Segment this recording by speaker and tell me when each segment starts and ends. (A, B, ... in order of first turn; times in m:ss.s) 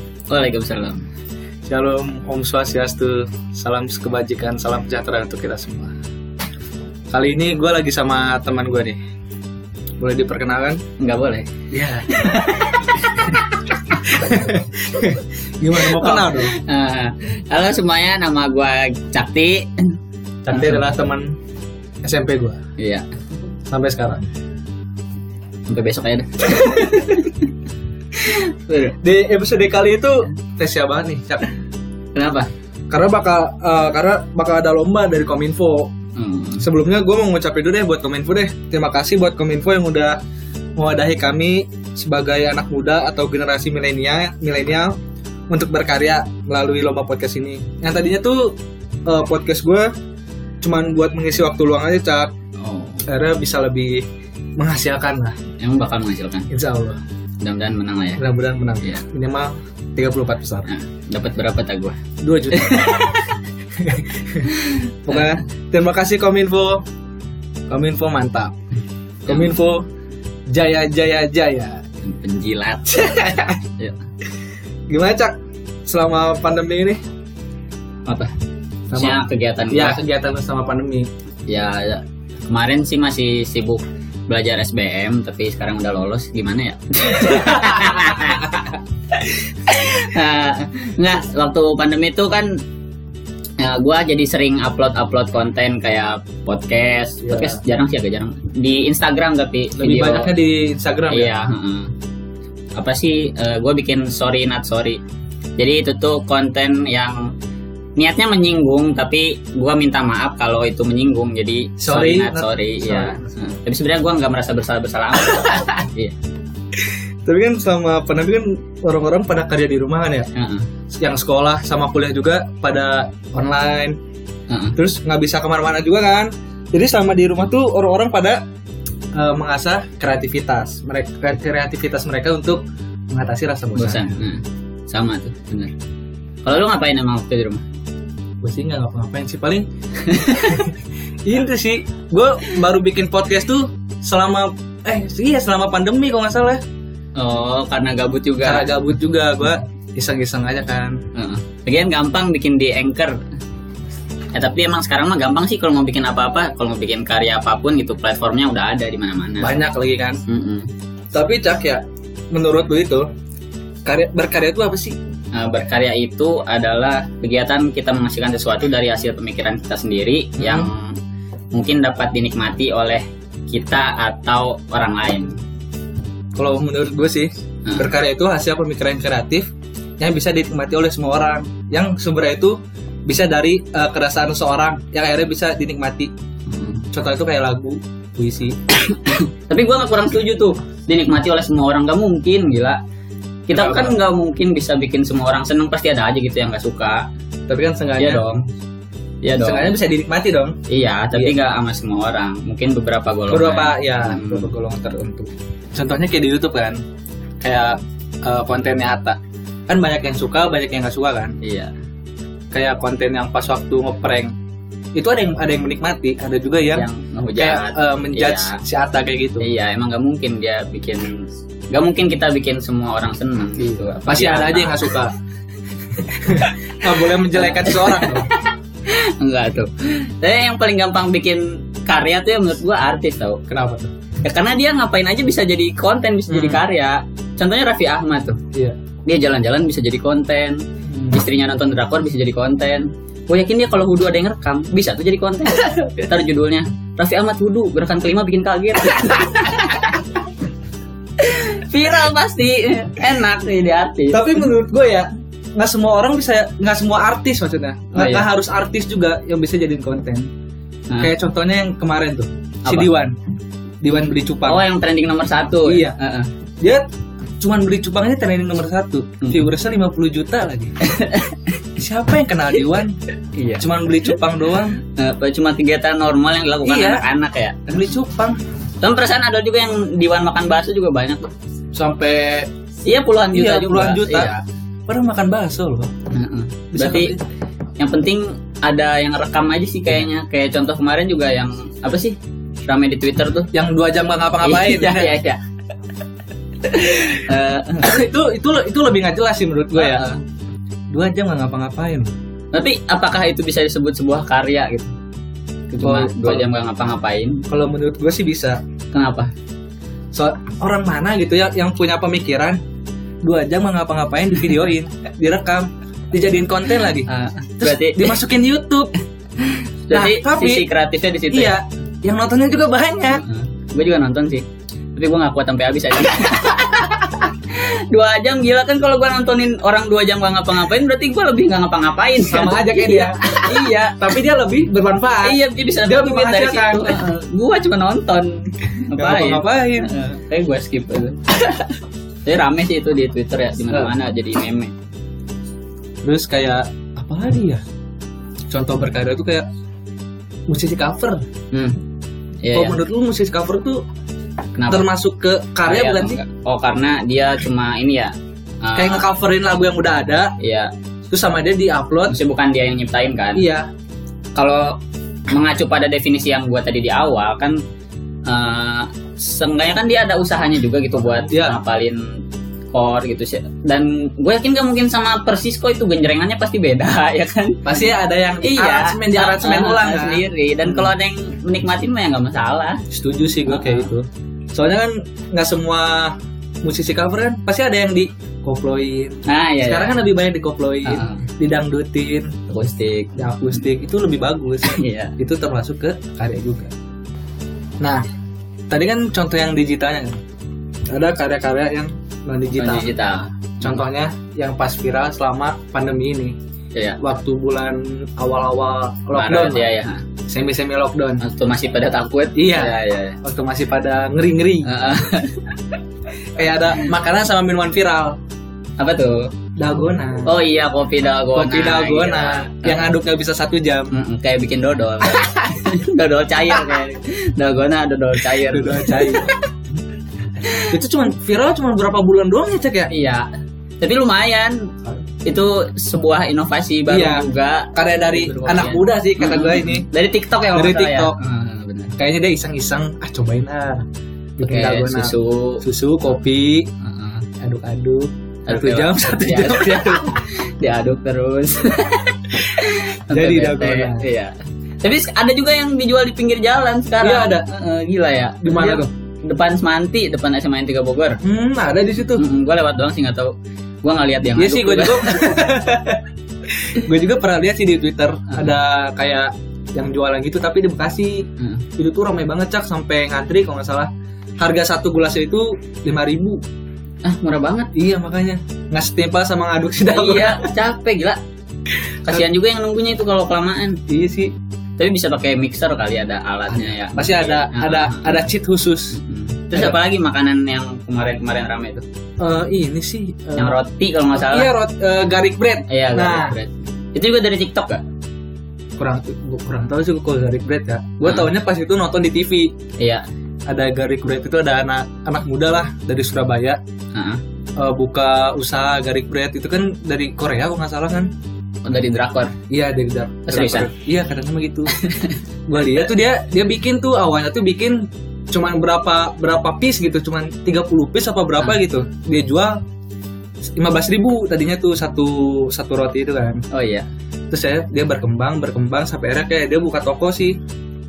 0:00.3-0:01.0 A
0:01.7-0:05.9 B
0:07.1-0:09.0 B
0:10.0-0:10.8 B
0:11.0-0:11.5 A
0:11.7-0:12.5 B
0:12.1-0:14.0 A
0:14.0-0:16.6 B
0:15.8-0:19.9 A
0:20.4-0:21.4 B
0:20.5-0:20.9 A
0:22.0-0:22.6 B
0:22.8-0:23.0 A
0:23.7-0:24.3 B
0:25.7-0:27.5 A
0:28.2-0:29.0 A
0:29.0-0:31.5 B
0:32.2-0:32.5 A
0:32.9-0:35.9 B
0:36.2-0:36.6 A
0:36.6-0:40.2 B
0:40.8-0:45.0 B
0:45.5-0:49.9 B
0:50.6-0:52.3 B
0:52.6-0:53.0 A
0:53.1-0:54.0 B
0:54.6-0:55.4 B
0:55.6-0:56.5 A
0:56.5-0:57.0 B
0:57.4-0:58.2 A
0:58.2-1:00.7 B
1:00.7-1:02.0 A
1:02.2-1:03.0 B
1:02.5-1:03.4 A
1:03.8-1:04.5 B
1:04.5-1:05.4 A
1:05.1-1:06.8 B
1:07.7-1:08.5 B
1:09.3-1:09.8 B
1:09.3-1:09.5 A
1:10.5-1:11.8 B
1:12.0-1:13.2 A
1:12.9-1:13.6 B
1:14.9-1:15.4 B
1:15.9-1:17.0 B
1:18.9-1:21.1 B
1:18.9-1:20.0 A
1:21.5-1:28.6 A
1:29.1-1:32.5 A
1:33.6-1:40.3 A
1:37.3-1:37.6 B
1:39.8-1:41.3 B
1:41.1-1:41.9 A
1:42.8-1:45.0 A
1:45.6-1:47.2 A
1:48.0-1:56.2 A
1:51.8-1:53.2 B
1:57.3-2:00.3 B
2:00.4-2:00.7 A
2:00.9-2:04.0 B
2:04.5-2:04.8 A
2:04.8-2:08.4 B
2:09.1-2:14.2 B
2:13.8-2:15.7 A
2:16.4-2:17.6 A
2:18.4-2:19.7 B
2:20.0-2:20.6 A
2:20.3-2:20.7 B
2:21.3-2:26.6 B
2:27.2-2:28.7 A
2:28.4-2:31.0 B
2:31.2-2:33.2 A
2:34.3-2:39.5 A
2:39.4-2:40.2 B
2:40.3-2:40.7 A
2:41.1-2:43.1 B
2:43.8-2:45.0 B
2:45.3-2:51.0 A
2:50.4-2:50.7 B
2:51.5-2:55.4 A
2:56.4-3:06.1 B
2:57.7-2:57.9 A
3:06.5-3:06.8 A
3:06.9-3:08.6 B
3:08.9-3:12.8 A
3:13.5-3:17.0 A
3:13.5-3:14.0 B
3:17.5-3:18.2 B
3:18.0-3:18.5 A
3:19.2-3:19.8 A
3:19.4-3:20.6 B
3:20.7-3:24.5 A
3:21.1-3:21.4 B
3:23.3-3:26.8 B
3:27.4-3:31.4 B
3:31.4-3:31.7 A
3:32.5-3:34.3 B
3:35.0-3:36.9 B
3:36.7-3:38.6 A
3:37.4-3:39.5 B
3:39.4-3:44.9 A
3:44.0-3:45.1 B
3:46.0-3:48.3 B
3:46.9-3:53.4 A
3:53.5-3:53.9 B
3:54.2-3:58.4 A
3:56.3-3:56.6 B
3:59.1-4:10.0 A
4:00.9-4:01.2 B
4:11.2-4:14.3 A
4:14.1-4:20.3 B
4:17.9-4:18.3 A
4:21.0-4:23.2 B
4:23.8-4:24.7 B
4:24.5-4:26.3 A
4:25.6-4:26.0 B
4:26.6-4:26.9 B
4:27.4-4:30.7 B
4:30.8-4:31.5 A
4:31.8-4:33.0 B
4:33.4-4:33.7 A
4:33.6-4:34.8 B
4:34.8-4:37.8 A
4:36.6-4:37.0 B
4:37.7-4:38.4 B
4:38.8-4:41.3 A
4:41.7-4:42.5 B
4:42.9-4:44.4 A
4:43.3-4:44.3 B
4:44.9-4:45.9 B
4:46.1-4:47.1 A
4:46.7-4:47.2 B
4:47.8-4:53.5 A
4:53.5-4:55.2 B
4:54.4-4:55.4 A
4:56.6-4:58.0 A
4:57.8-5:00.2 B
4:59.7-5:00.2 A
5:00.9-5:02.1 B
5:02.5-5:04.9 A
5:05.7-5:07.4 A
5:05.8-5:06.5 B
5:07.5-5:08.6 B
5:08.9-5:09.3 A
5:10.1-5:12.6 B
5:13.2-5:17.1 B
5:17.1-5:18.2 A
5:17.6-5:18.9 B
5:19.4-5:21.6 A
5:19.9-5:20.7 B
5:21.3-5:23.2 B
5:23.2-5:24.4 A
5:25.0-5:34.2 A
5:32.2-5:37.1 B
5:35.2-5:44.7 A
5:39.0-5:40.0 B
5:46.0-5:47.6 B
5:48.5-5:49.5 B
5:50.5-5:51.2 B
5:51.5-5:51.8 A
5:52.4-5:52.8 A
5:52.5-5:53.8 B
5:54.6-5:54.9 A
5:54.7-5:56.2 B
5:55.7-5:59.0 A
5:58.8-6:00.3 B
6:00.4-6:00.7 A
6:01.1-6:02.2 B
6:02.1-6:03.4 A
6:03.4-6:03.7 B
6:04.4-6:04.7 B
6:05.3-6:07.6 A
6:08.3-6:12.0 A
6:11.1-6:11.6 B
6:12.7-6:17.6 A
6:17.6-6:20.9 B
6:18.4-6:22.8 A
6:22.9-6:32.3 B
6:23.5-6:23.9 A
6:29.3-6:30.1 A
6:30.8-6:31.3 A
6:32.5-6:33.1 A
6:33.2-6:36.7 B
6:34.6-6:35.2 A
6:38.7-6:40.2 B
6:40.9-6:42.9 B
6:42.6-6:43.8 A
6:43.6-6:46.4 B
6:47.0-6:49.7 B
6:49.1-6:50.0 A
6:50.3-6:51.2 B
6:51.2-6:53.2 A
6:52.4-6:54.7 B
6:54.6-6:55.5 A
6:56.4-6:58.2 B
6:58.8-6:59.3 A
6:59.6-7:00.3 B
7:00.2-7:02.9 A
7:01.3-7:03.9 B
7:03.9-7:09.4 A
7:08.5-7:09.4 B
7:10.4-7:10.7 A
7:10.6-7:12.9 B
7:12.9-7:13.3 A
7:13.8-7:14.7 A
7:15.2-7:21.9 A
7:16.9-7:19.9 B
7:20.5-7:21.2 B
7:22.0-7:23.8 B
7:24.4-7:26.7 B
7:24.4-7:25.6 A
7:26.8-7:27.3 A
7:27.4-7:30.1 B
7:28.5-7:41.2 A
7:33.1-7:34.1 B
7:37.0-7:37.5 B
7:38.4-7:38.9 B
7:41.2-7:42.2 B
7:42.2-7:45.3 A
7:44.3-7:46.0 B
7:46.6-7:51.3 B
7:51.4-7:51.6 A
7:51.8-7:56.4 B
7:57.0-7:57.7 A
7:57.7-8:00.5 B
7:59.9-8:01.2 A
8:02.1-8:03.8 A
8:03.9-8:04.3 B
8:04.8-8:08.3 A
8:06.5-8:09.0 B
8:09.0-8:11.8 A
8:09.5-8:09.8 B
8:12.2-8:13.6 B
8:13.4-8:14.5 A
8:14.1-8:16.4 B
8:15.7-8:17.8 A
8:18.8-8:22.5 B
8:21.0-8:21.3 A
8:22.8-8:23.0 A
8:23.5-8:26.6 B
8:27.0-8:27.2 A
8:27.6-8:31.1 B
8:31.6-8:32.3 A
8:32.5-8:34.8 B
8:33.3-8:33.7 A
8:34.7-8:35.2 A
8:35.5-8:42.6 B
8:43.6-8:46.4 B
8:46.5-8:46.9 A
8:47.3-8:50.4 B